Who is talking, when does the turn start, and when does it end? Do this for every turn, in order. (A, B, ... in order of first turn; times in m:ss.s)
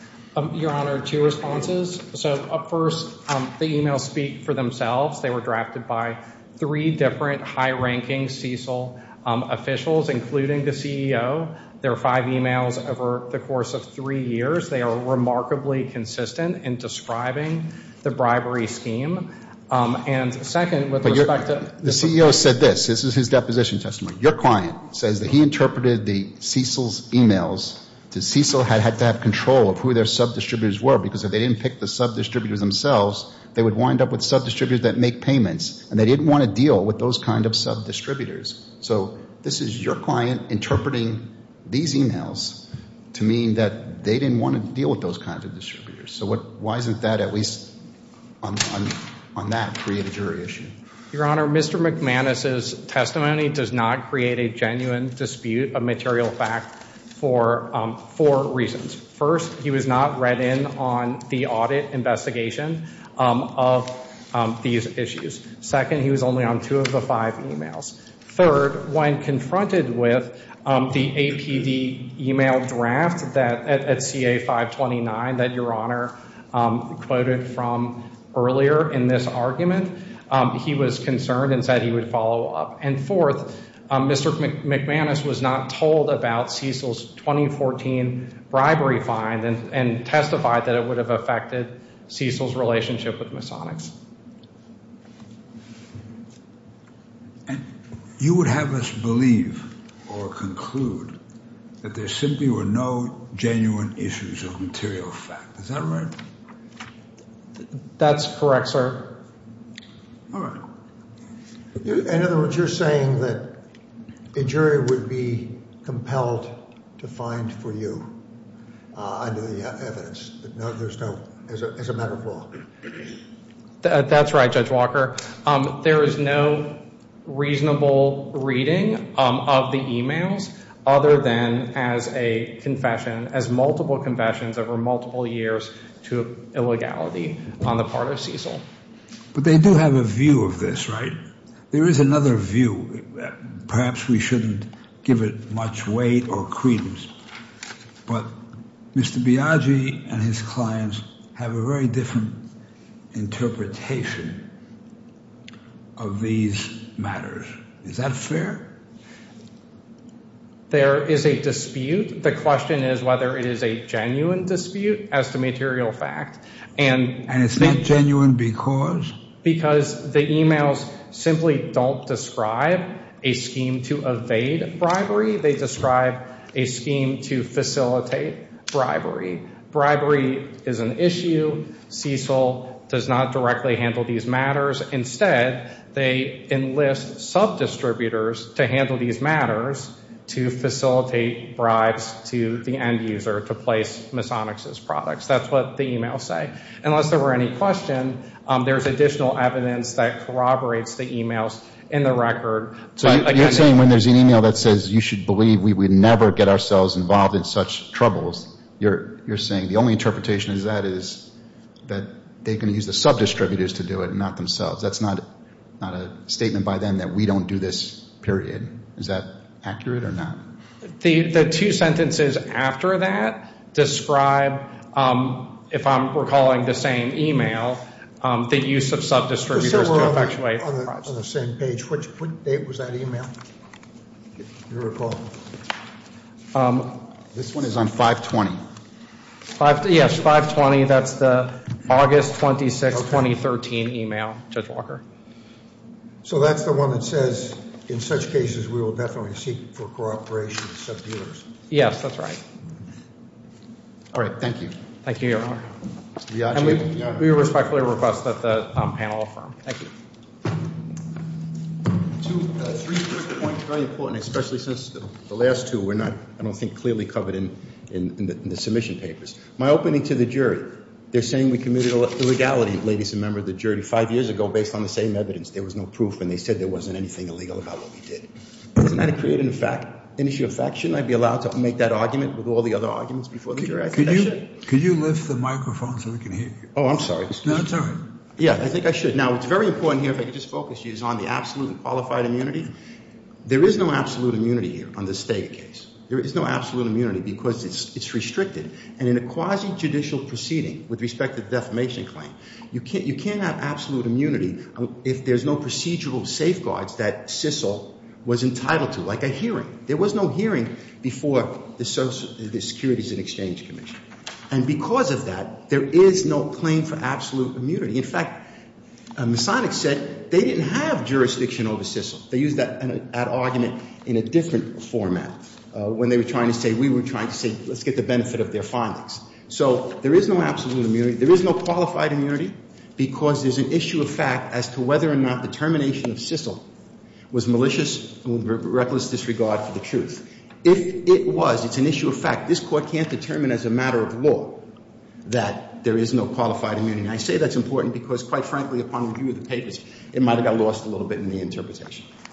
0:00.3-0:22.3 A
0:21.0-0:47.8 B
0:48.4-0:50.7 B
0:51.1-1:33.9 A
1:38.2-1:41.1 C
1:41.8-1:46.1 C
1:48.0-1:49.2 A
1:50.3-1:50.6 C
1:51.8-1:53.6 D
1:54.3-1:58.0 D
1:58.9-2:02.5 D
2:03.8-2:18.6 A
2:19.3-2:21.2 C
2:21.7-2:27.1 C
2:28.9-2:32.4 C
2:33.1-2:34.4 C
2:36.0-2:38.7 C
2:40.7-2:47.8 A
2:47.3-2:49.1 C
2:49.4-3:23.7 A
3:23.0-3:31.3 B
3:31.8-3:35.2 B
3:35.8-3:40.4 B
3:41.0-3:51.1 A
3:49.5-3:53.3 D
3:54.7-3:55.3 D
3:56.5-3:56.9 A
3:57.3-3:58.6 B
3:59.6-4:05.0 A
4:02.9-4:03.3 D
4:06.2-4:11.4 D
4:11.7-4:12.4 A
4:14.1-4:14.7 B
4:15.0-4:15.7 A
4:16.3-4:17.2 B
4:16.5-4:19.9 A
4:22.2-4:44.5 E
4:43.8-4:46.7 C
4:46.7-4:47.7 E
4:47.4-4:48.0 C
4:48.4-4:52.7 E
4:53.4-5:18.4 E
5:19.2-5:36.7 E
5:37.3-5:44.6 E
5:45.2-5:52.1 E